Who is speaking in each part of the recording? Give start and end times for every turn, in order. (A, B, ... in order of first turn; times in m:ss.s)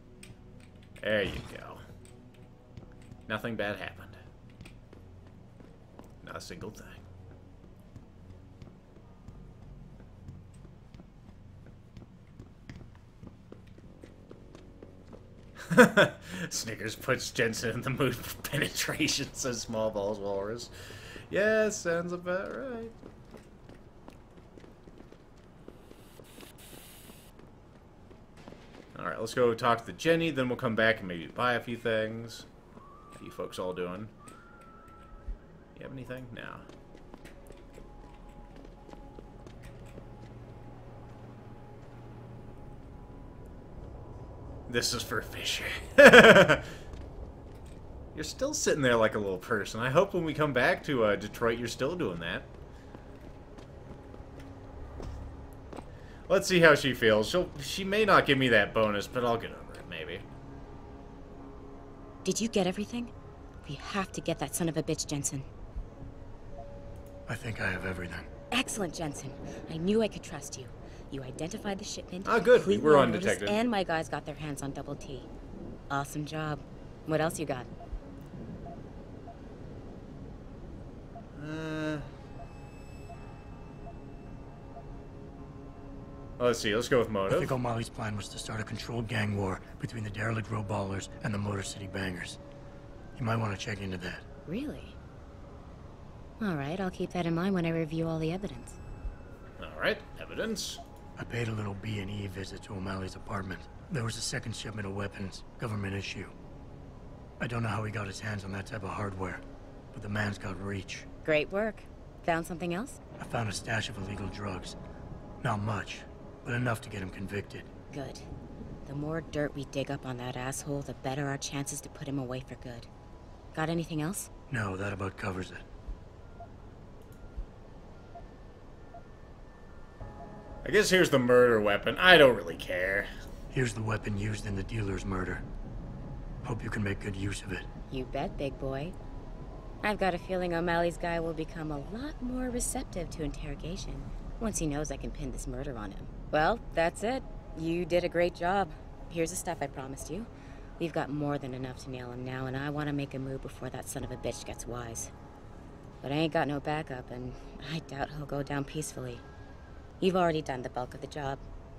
0:01.0-0:01.8 A
0:03.3-0:04.2 A
0:06.2-0:07.0 A
0:15.7-0:20.7 A
0:21.3-0:22.9 A
0:29.0-0:32.5 A
0:33.2-0:34.1 A
0:35.8-0:36.6 A
0:44.7-0:46.7 A
0:48.1-0:52.5 A
0:56.3-1:00.2 A
1:02.2-1:03.1 B
1:03.6-1:05.5 B
1:07.3-1:08.3 C
1:08.5-1:15.3 B
1:12.2-1:13.6 A
1:15.9-1:17.7 B
1:21.4-1:22.1 A
1:26.4-1:27.6 A
1:27.3-1:32.4 C
1:33.2-1:34.3 C
1:34.5-1:35.0 B
1:36.4-1:38.8 B
1:39.6-1:40.8 A
1:41.2-1:46.3 C
1:47.4-1:51.1 C
1:51.2-1:53.0 B
1:53.2-1:54.8 C
1:55.4-1:57.7 C
1:57.9-1:58.3 B
1:58.9-2:02.9 B
2:03.5-2:04.3 B
2:04.5-2:05.6 C
2:10.6-2:13.1 A
2:13.5-2:15.4 C
2:16.4-2:17.7 C
2:17.9-2:19.0 B
2:19.8-2:30.3 B
2:30.8-2:35.1 B
2:36.0-2:39.2 B
2:40.0-2:41.4 B